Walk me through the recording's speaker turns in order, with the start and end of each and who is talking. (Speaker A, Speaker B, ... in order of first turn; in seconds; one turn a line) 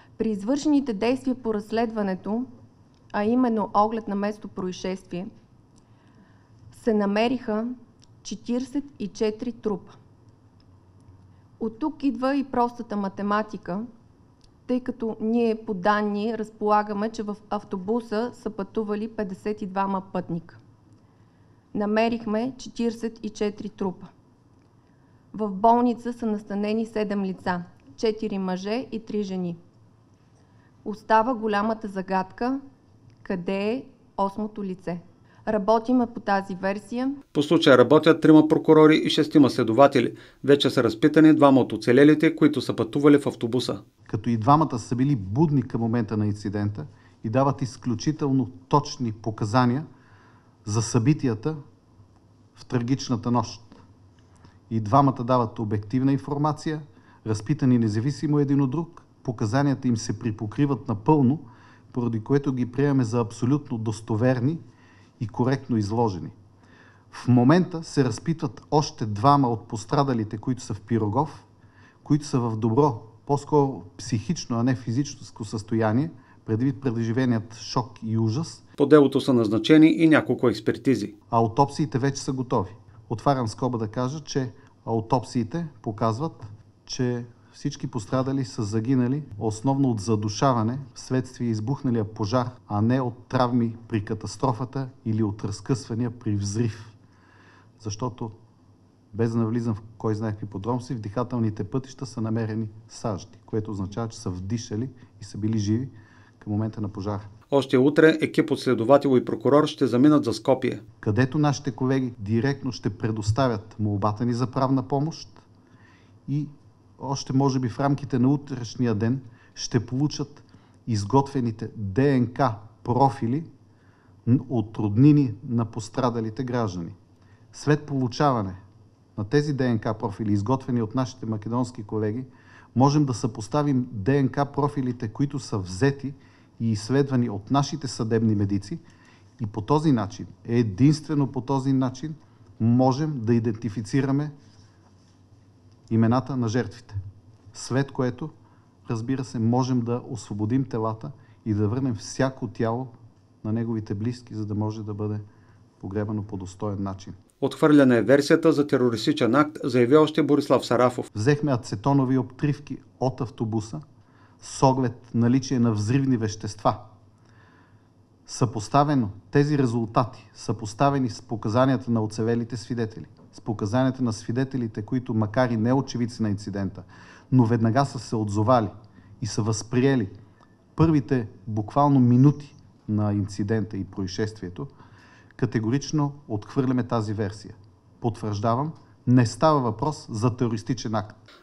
Speaker A: 0.2-2.5
Speaker A: 3.1-5.3
Speaker A: 6.7-10.0
Speaker A: 11.6-13.9
Speaker A: 14.7-20.6
Speaker A: 21.7-24.1
Speaker A: 25.3-29.6
Speaker A: 30.8-32.6
Speaker A: 33.2-37.2
Speaker B: 37.3-43.8
Speaker C: 44.1-49.9
Speaker C: 50.6-51.6
Speaker C: 52.6-53.8
Speaker C: 54.7-64.6
Speaker C: 65.2-66.3
Speaker C: 67.1-71.5
Speaker C: 72.0-78.6
Speaker B: 78.8-81.1
Speaker C: 81.3-96.9
Speaker C: 97.8-98.3
Speaker C: 99.1-107.3
Speaker B: 107.5-110.8
Speaker C: 111.0-115.4
Speaker C: 116.3-123.5
Speaker C: 124.2-127.0
Speaker C: 127.5-128.6
Speaker C: 129.2-138.8
Speaker C: 139.4-144.3
Speaker C: 145.9-147.0
Speaker C: 147.5-148.3
Speaker C: 148.9-155.2
Speaker C: 155.8-157.2
Speaker B: 157.4-161.1
Speaker C: 161.1-163.8
Speaker C: 164.4-166.9
Speaker C: 168.3-180.1
Speaker C: 180.8-184.7
Speaker C: 185.4-191.2